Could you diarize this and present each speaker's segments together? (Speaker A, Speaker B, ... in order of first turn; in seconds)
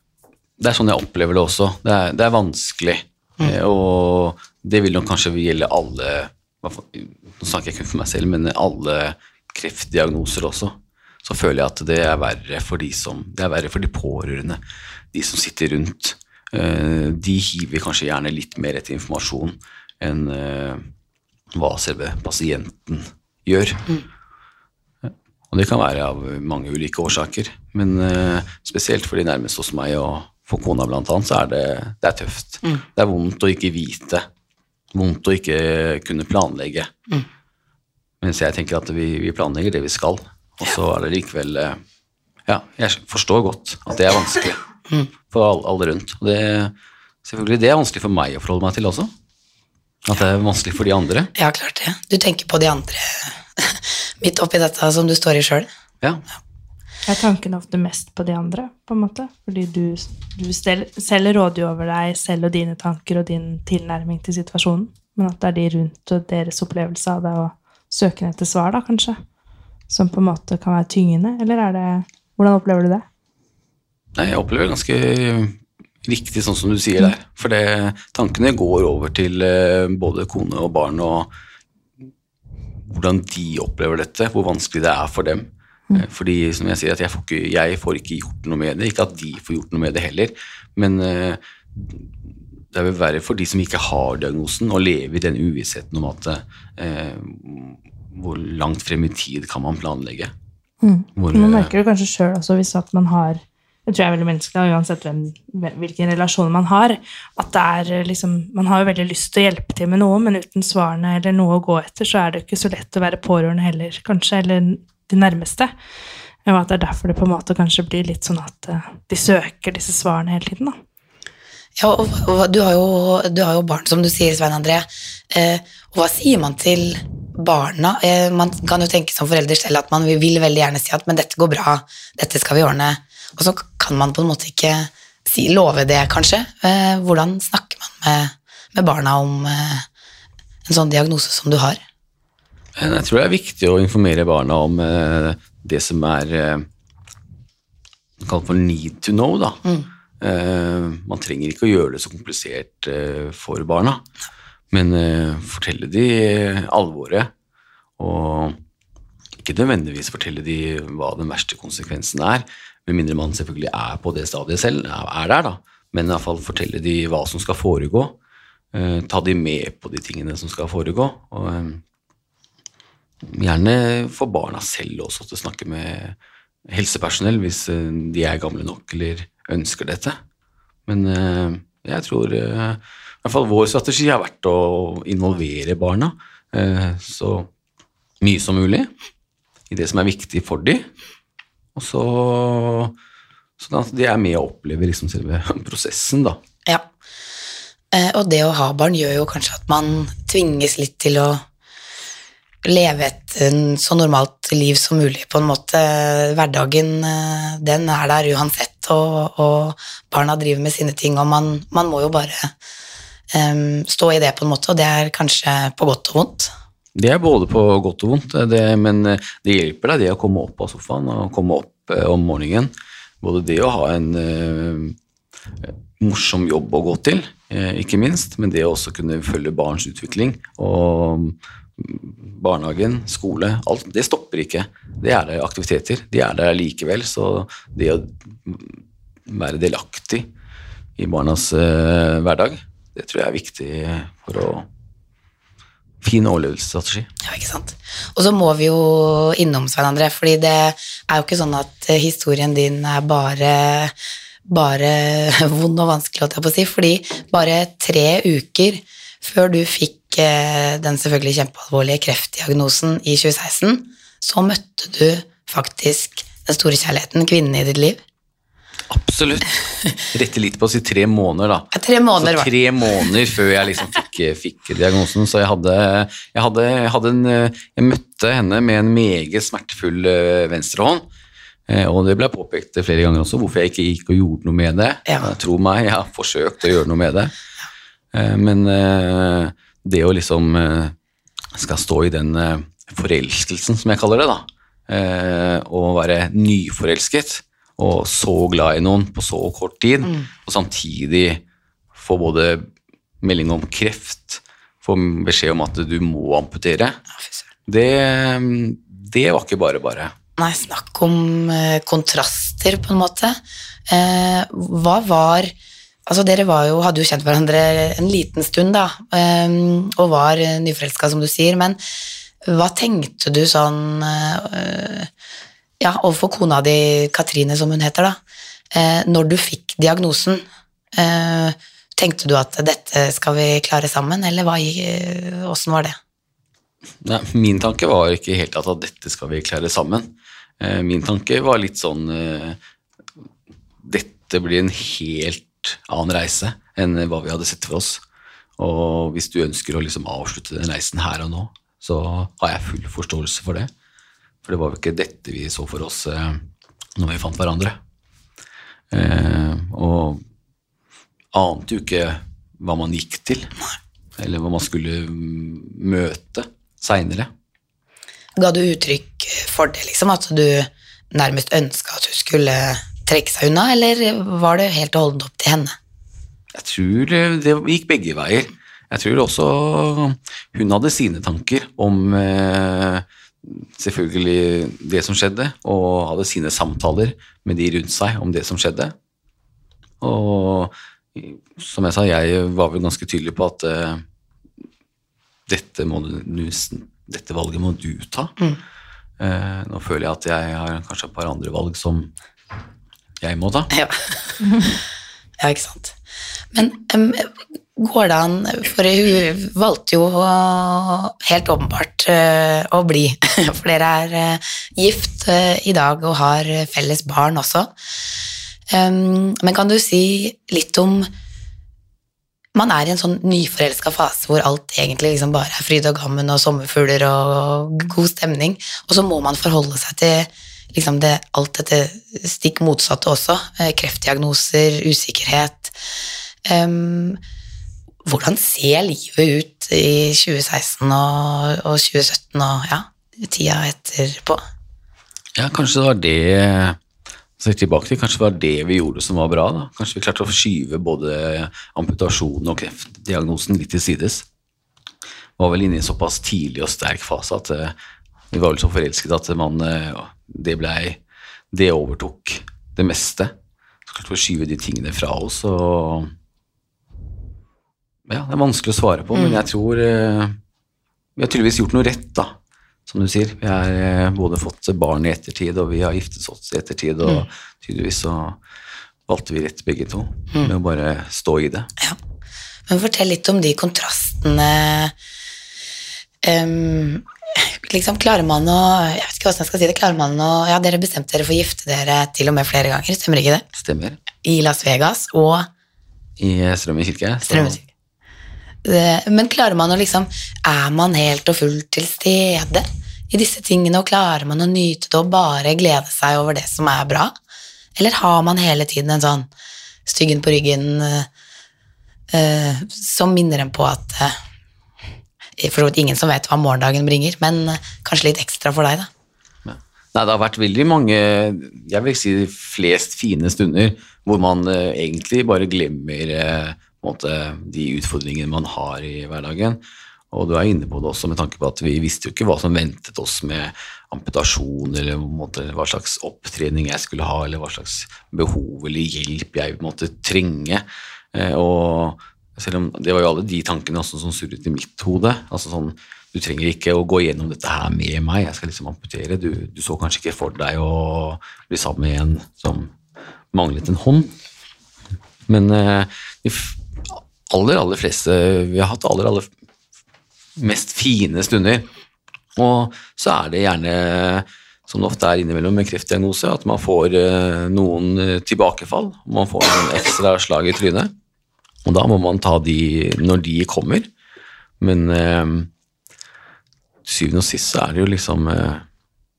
Speaker A: 0.6-14.6, 15.1-20.9, 21.5-23.9, 25.1-34.2, 34.9-36.9, 38.2-41.8, 42.5-44.6, 45.3-46.7, 47.2-49.1, 50.0-51.3, 74.1-81.3, 82.8-92.1, 92.7-100.3, 101.2-101.7, 142.8-146.7, 148.2-149.6, 150.2-154.1, 154.7-157.3, 158.0-158.6, 159.4-168.2, 168.7-171.8, 173.2-176.2, 176.7-180.2, 180.8-187.5, 188.2-188.9, 189.7-190.9, 191.8-192.9, 193.6-196.4, 216.9-224.9, 225.6-240.3, 241.0-244.7, 246.0-247.1, 268.9-269.5, 270.1-281.0, 281.7-287.3, 288.1-290.9, 291.5-301.4, 301.9-302.7, 303.2-307.0, 307.7-310.1, 337.0-342.6, 343.8-348.0, 348.6-353.7, 354.4-356.4, 357.0-357.8, 358.9-360.2, 361.3-363.5, 364.2-367.3, 376.5-388.9, 390.0-394.0, 395.5-398.3, 399.2-402.1, 403.2-403.7, 445.3-446.8, 447.4-454.2, 455.4-457.7, 458.3-461.0, 461.5-463.3, 463.9-466.1, 468.1-470.4, 471.2-472.4, 472.9-478.4, 479.1-481.7, 493.5-494.0, 496.2-497.6, 519.4-529.6, 530.1-552.7, 553.3-554.1, 555.3-559.3, 560.4-561.7, 562.4-570.9, 571.6-573.9, 574.6-575.5, 576.8-578.6
Speaker B: 51.4-55.7, 121.8-139.8, 140.7-141.8, 197.9-201.4, 202.6-212.5, 213.3-216.5, 247.2-253.9, 254.4-268.0, 271.7-272.5, 310.4-313.4, 313.9-315.5, 316.1-321.8, 322.4-325.1, 325.8-328.2, 328.7-336.0, 368.4-375.7, 403.7-404.3, 405.4-405.9, 406.5-417.7, 418.7-421.1, 422.5-435.8, 436.4-437.2, 438.1-444.4, 469.1-469.4, 482.7-484.9, 486.2-493.4, 494.2-495.5, 497.2-497.6, 498.6-507.1, 507.8-509.3, 509.9-511.1, 512.1-514.1, 515.4-518.9
Speaker C: 57.1-69.2, 69.9-73.0, 100.8-115.7, 116.4-120.8